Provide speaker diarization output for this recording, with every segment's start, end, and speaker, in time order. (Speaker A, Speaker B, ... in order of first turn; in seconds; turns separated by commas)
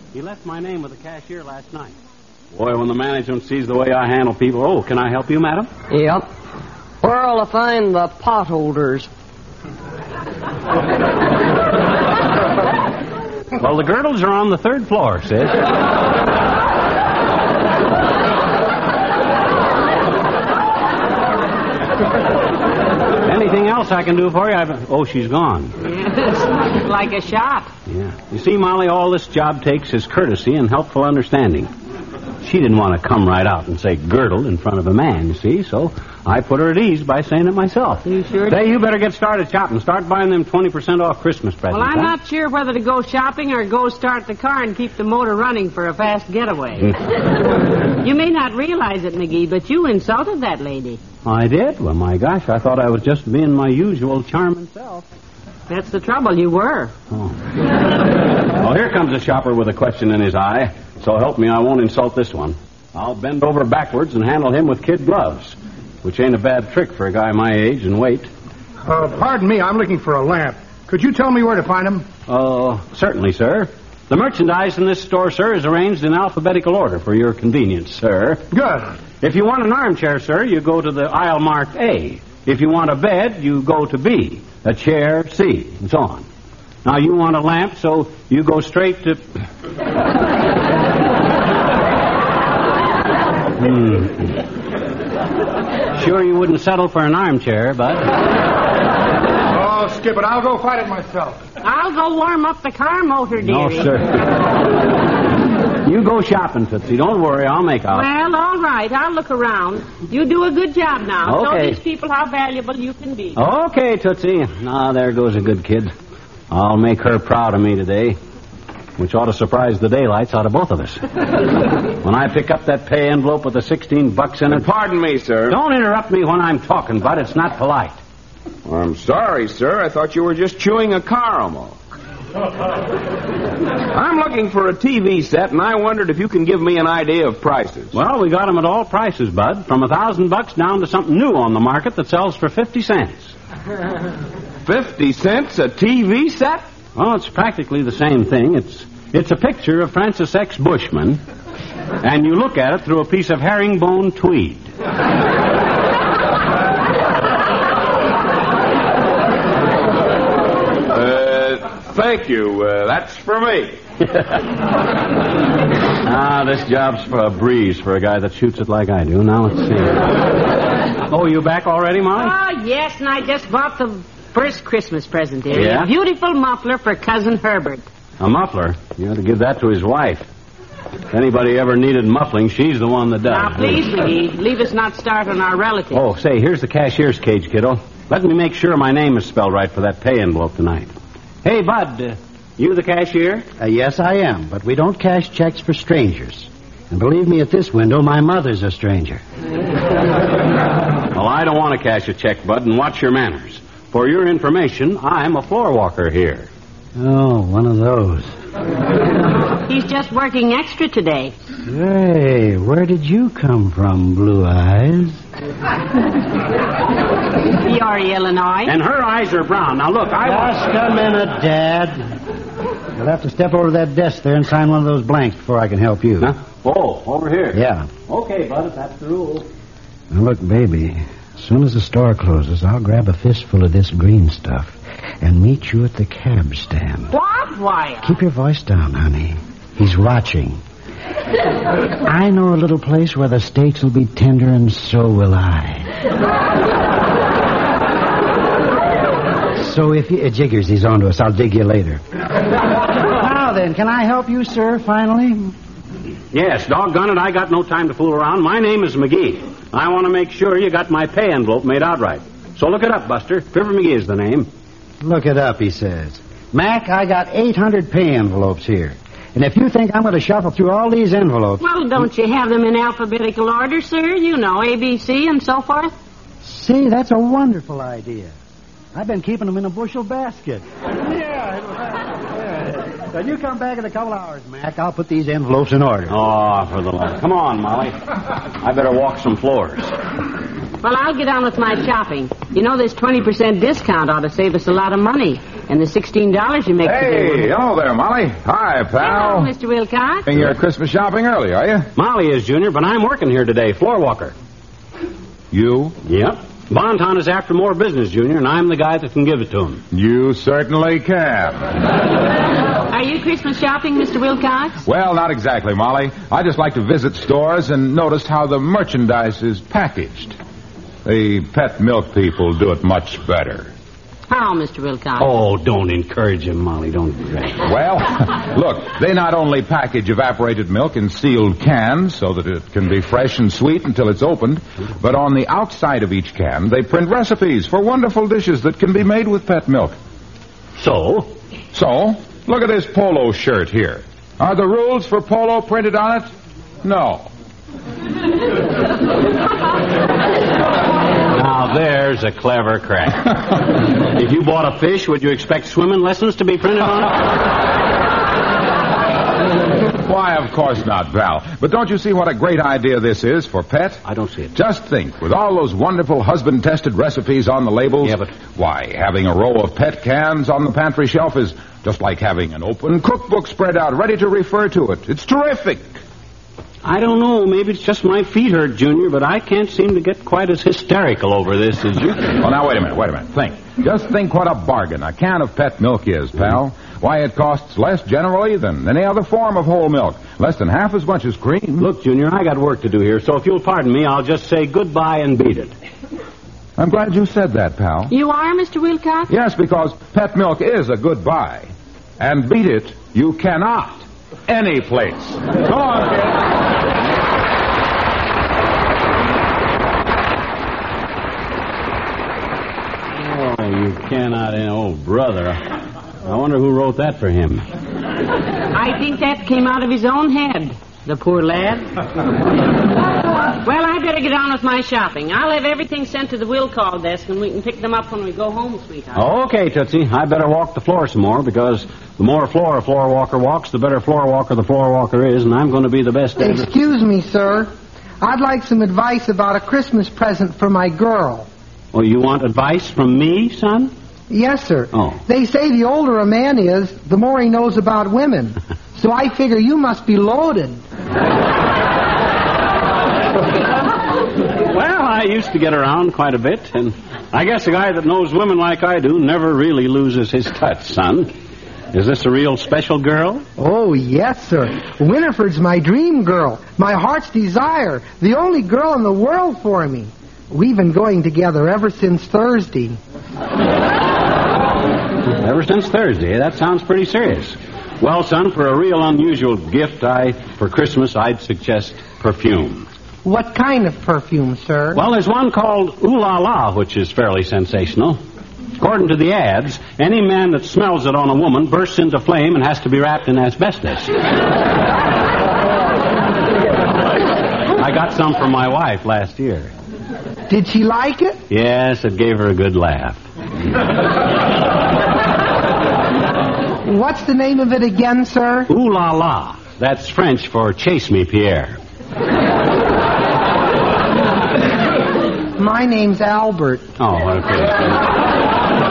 Speaker A: 0.1-1.9, Speaker A: 2.5-5.7, Speaker B: 5.9-6.3, Speaker B: 7.0-9.1, Speaker A: 13.6-15.6, Speaker A: 23.2-25.8, Speaker C: 25.8-27.7, Speaker A: 27.9-31.7, Speaker A: 32.4-42.1, Speaker C: 38.0-38.6, Speaker C: 41.7-46.9, Speaker C: 48.0-51.0, Speaker A: 51.2-55.1, Speaker C: 55.7-56.9, Speaker A: 58.6-68.3, Speaker D: 68.8-72.1, Speaker A: 72.3-78.5, Speaker D: 78.5-78.9, Speaker A: 79.2-86.2, Speaker A: 86.8-89.2, Speaker A: 93.6-94.4, Speaker A: 96.0-98.1, Speaker D: 99.5-101.4, Speaker C: 101.6-103.9, Speaker A: 103.4-104.2, Speaker A: 105.8-108.1, Speaker C: 107.9-113.4, Speaker A: 111.2-111.8, Speaker A: 113.4-115.9, Speaker A: 116.5-118.2, Speaker A: 119.0-121.1, Speaker A: 122.0-124.7, Speaker E: 124.5-125.6, Speaker A: 125.5-128.0, Speaker E: 128.7-131.8, Speaker E: 133.9-137.9, Speaker A: 137.9-143.3, Speaker E: 144.7-146.6, Speaker A: 147.0-151.2, Speaker A: 152.0-154.7, Speaker E: 160.9-163.8, Speaker A: 166.0-170.1, Speaker A: 171.1-172.3, Speaker C: 172.2-177.9, Speaker A: 175.5-175.9, Speaker A: 178.2-180.3, Speaker A: 181.1-183.9, Speaker C: 183.3-186.0, Speaker A: 185.9-190.9, Speaker A: 191.4-193.5, Speaker F: 193.6-199.2, Speaker A: 201.1-206.5, Speaker F: 207.0-208.3, Speaker C: 209.7-211.3, Speaker F: 211.7-215.2, Speaker C: 217.6-218.7, Speaker A: 218.7-220.6, Speaker F: 220.2-222.1, Speaker F: 223.0-226.3, Speaker A: 226.2-229.5, Speaker F: 227.5-227.9, Speaker F: 230.1-237.1, Speaker C: 237.1-238.2, Speaker F: 238.0-240.6, Speaker F: 242.1-245.9, Speaker F: 249.6-252.0, Speaker F: 253.1-255.5, Speaker A: 256.3-264.5, Speaker F: 265.0-271.6, Speaker C: 271.6-275.9, Speaker F: 276.4-278.3, Speaker F: 278.9-286.2, Speaker A: 286.1-289.9, Speaker C: 290.8-297.5, Speaker G: 296.8-299.5, Speaker C: 299.0-300.3, Speaker G: 300.3-301.9, Speaker A: 302.0-304.4, Speaker G: 305.5-306.0, Speaker A: 306.1-309.8, Speaker G: 309.9-311.7, Speaker C: 312.9-314.8, Speaker G: 314.9-320.4, Speaker G: 321.1-323.7, Speaker C: 324.3-325.3, Speaker A: 325.2-327.6, Speaker G: 327.6-339.9, Speaker A: 340.8-341.3, Speaker G: 341.7-346.3, Speaker G: 346.8-347.3, Speaker A: 351.3-357.3, Speaker G: 360.0-364.0, Speaker A: 364.1-364.5, Speaker G: 364.5-376.0, Speaker A: 376.8-382.4, Speaker G: 382.4-391.9, Speaker A: 391.8-395.7, Speaker G: 396.8-398.1, Speaker C: 398.1-399.3, Speaker G: 399.3-406.2, Speaker A: 413.1-415.7, Speaker A: 416.2-417.6, Speaker C: 418.7-421.9, Speaker C: 423.6-429.3, Speaker A: 429.1-436.7, Speaker H: 436.4-441.5, Speaker A: 441.9-443.9, Speaker H: 444.3-450.8, Speaker A: 444.9-445.2, Speaker A: 454.6-461.3, Speaker A: 461.9-463.4, Speaker H: 463.6-473.0, Speaker A: 475.3-482.9, Speaker H: 483.2-485.0, Speaker A: 484.9-488.2, Speaker A: 488.8-494.1, Speaker A: 497.8-499.7, Speaker H: 500.5-501.4, Speaker A: 501.5-503.2, Speaker H: 506.9-508.7, Speaker A: 508.7-511.8, Speaker H: 515.6-516.9, Speaker A: 517.0-518.0